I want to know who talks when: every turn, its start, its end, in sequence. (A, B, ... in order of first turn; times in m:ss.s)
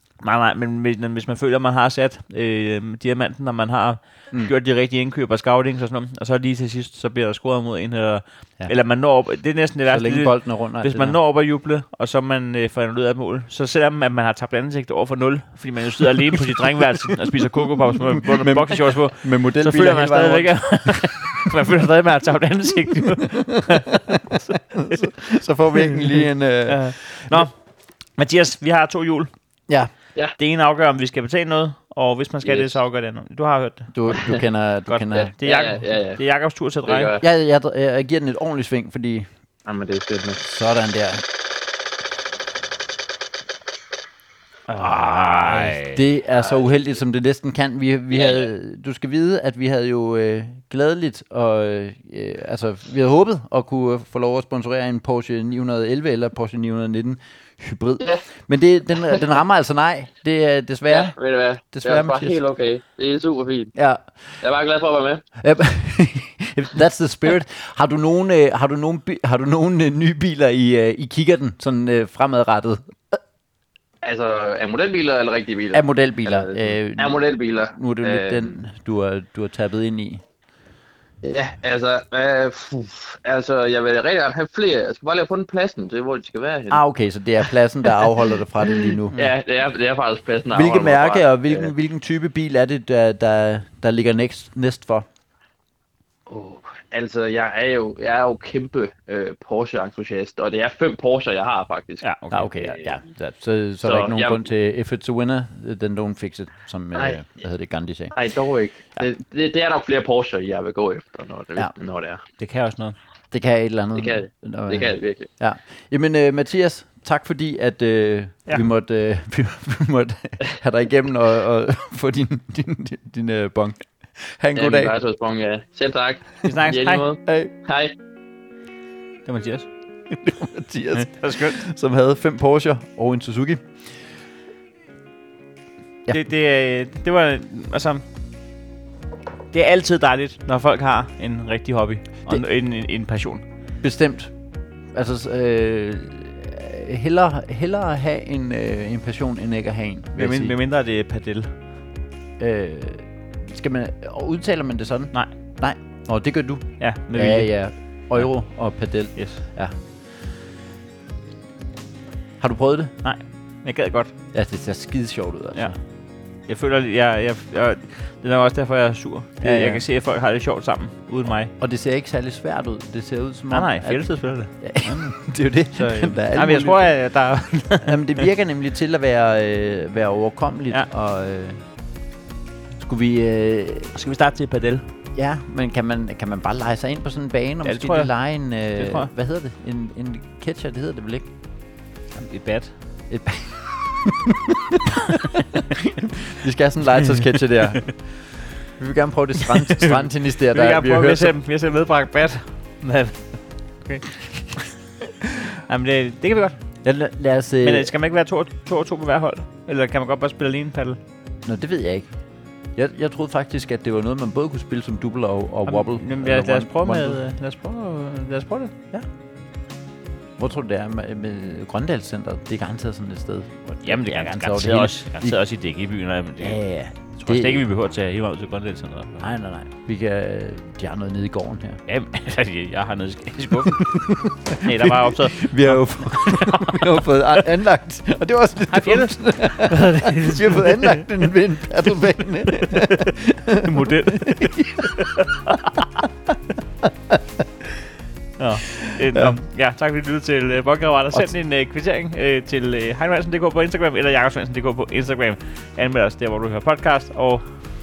0:00.2-0:25.2 A
0:09.9-0:11.2 B
0:17.0-0:21.3 B
0:23.3-0:27.5 B
0:25.7-0:27.6 A
0:28.2-0:29.3 A
0:29.7-0:29.9 B
0:30.4-0:34.2 A
0:32.4-0:32.8 C
0:33.9-0:35.3 B
0:34.1-0:34.4 C
0:34.9-0:37.1 A
0:35.2-0:37.2 C
0:37.2-0:39.3 B
0:39.6-0:40.4 C
0:40.4-0:41.2 B
0:44.7-0:46.0 A
0:45.8-1:01.2 B
0:46.4-0:46.8 C
0:48.1-0:48.5 C
0:58.0-0:58.3 C
1:00.9-1:03.8 C
1:01.7-1:02.4 B
1:03.8-1:04.0 B
1:04.4-1:05.2 C
1:05.4-1:13.2 B
1:14.0-1:18.6 C
1:15.7-1:20.2 B
1:21.2-1:26.8 C
1:26.7-1:29.2 B
1:27.4-1:28.1 C
1:28.6-1:31.7 C
1:30.5-1:35.1 B
1:36.3-1:42.1 C
1:42.0-1:42.5 A
1:42.3-1:48.1 B
1:42.6-1:43.0 C
1:43.8-1:44.4 C
1:47.0-1:47.2 C
1:48.1-1:52.2 C
1:52.4-1:53.0 A
1:53.3-2:05.0 B
1:54.0-1:55.3 C
2:04.6-2:07.9 C
2:06.4-2:07.1 A
2:07.3-2:07.5 B
2:09.3-2:09.7 A
2:10.1-2:14.0 B
2:10.9-2:11.6 A
2:16.1-2:18.0 A
2:19.5-2:23.4 A
2:23.8-2:24.4 B
2:24.9-2:30.6 B
2:30.2-2:31.5 A
2:32.4-2:39.7 B
2:36.8-2:37.6 A
2:39.2-2:39.4 A
2:42.4-2:42.9 B
2:43.0-2:44.1 A
2:44.3-2:45.8 B
2:46.4-2:51.5 A
2:49.4-2:49.8 B
2:51.6-2:56.9 B
2:53.5-2:55.1 A
2:55.7-2:58.3 A
2:57.8-3:01.6 B
3:02.8-3:04.0 B
3:04.0-3:04.8 A
3:05.1-3:11.3 B
3:07.6-3:08.1 A
3:08.8-3:09.1 A
3:12.2-3:12.7 A
3:13.1-3:21.3 B
3:20.5-3:24.7 A
3:25.5-3:26.6 A
3:26.8-3:27.9 B
3:27.6-3:31.0 A
3:31.4-3:32.2 B
3:32.8-3:37.2 B
3:35.7-3:38.7 A
3:40.4-3:45.4 B
3:43.8-3:49.3 A
3:46.4-3:47.6 B
3:49.2-3:51.8 B
3:51.9-3:57.1 A
3:53.6-4:04.9 B
3:58.7-4:01.1 A
4:02.6-4:06.1 A
4:06.8-4:07.2 B
4:08.4-4:17.4 A
4:08.9-4:09.4 B